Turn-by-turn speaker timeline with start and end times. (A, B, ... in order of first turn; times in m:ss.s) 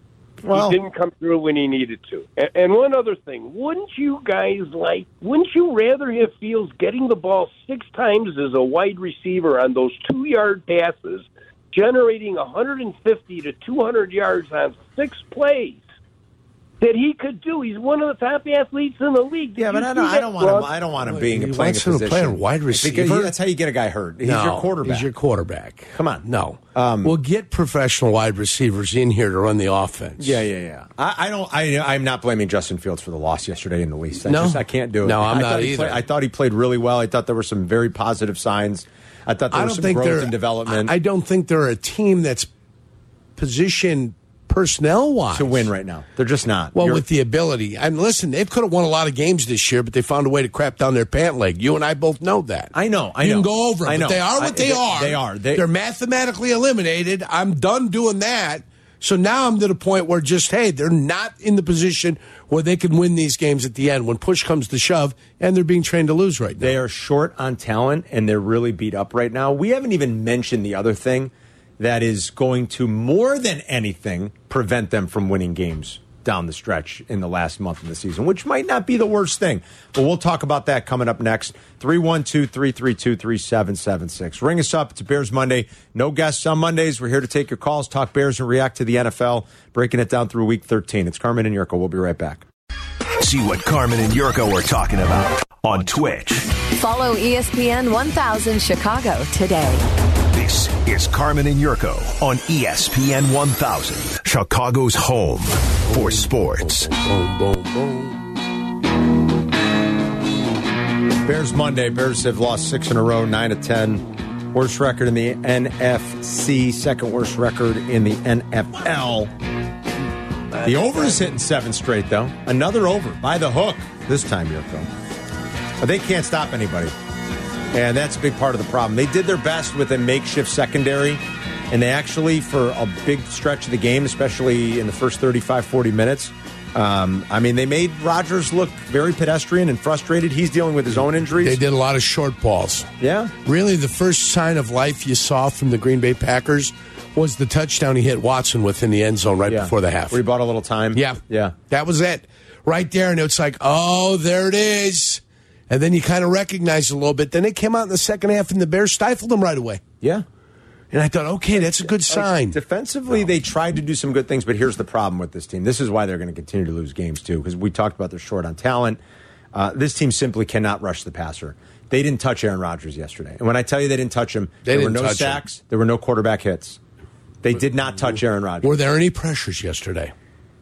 0:00.4-0:00.8 A
0:00.5-0:15.8 B
0:16.8-0:20.7 B
0:19.6-0:25.1 A
0:21.1-0:23.3 C
0:24.2-0:30.4 C
0:25.9-0:27.1 A
0:30.2-0:40.9 A
0:34.3-0:36.0 C
0:39.5-0:42.5 C
0:43.4-0:45.7 C
0:45.3-0:47.0 A
0:46.7-1:06.8 C
0:52.7-0:55.6 A
1:06.6-1:32.4 A
1:33.2-1:36.5 D
1:36.7-1:39.8 E
1:40.3-1:46.9 D
1:45.9-1:48.2 C
1:51.2-1:59.3 A
2:00.6-2:04.9 A
2:05.8-2:06.9 A
2:07.7-2:21.6 A
2:21.4-2:22.9 C
2:23.0-2:23.3 A
2:23.4-2:30.2 C
2:29.4-2:31.6 A
2:30.9-2:39.8 C
2:40.9-2:42.6 C
2:41.5-2:49.0 A
2:49.5-2:56.8 A
2:54.6-2:55.4 C
2:57.4-2:58.7 A
2:58.6-3:00.1 C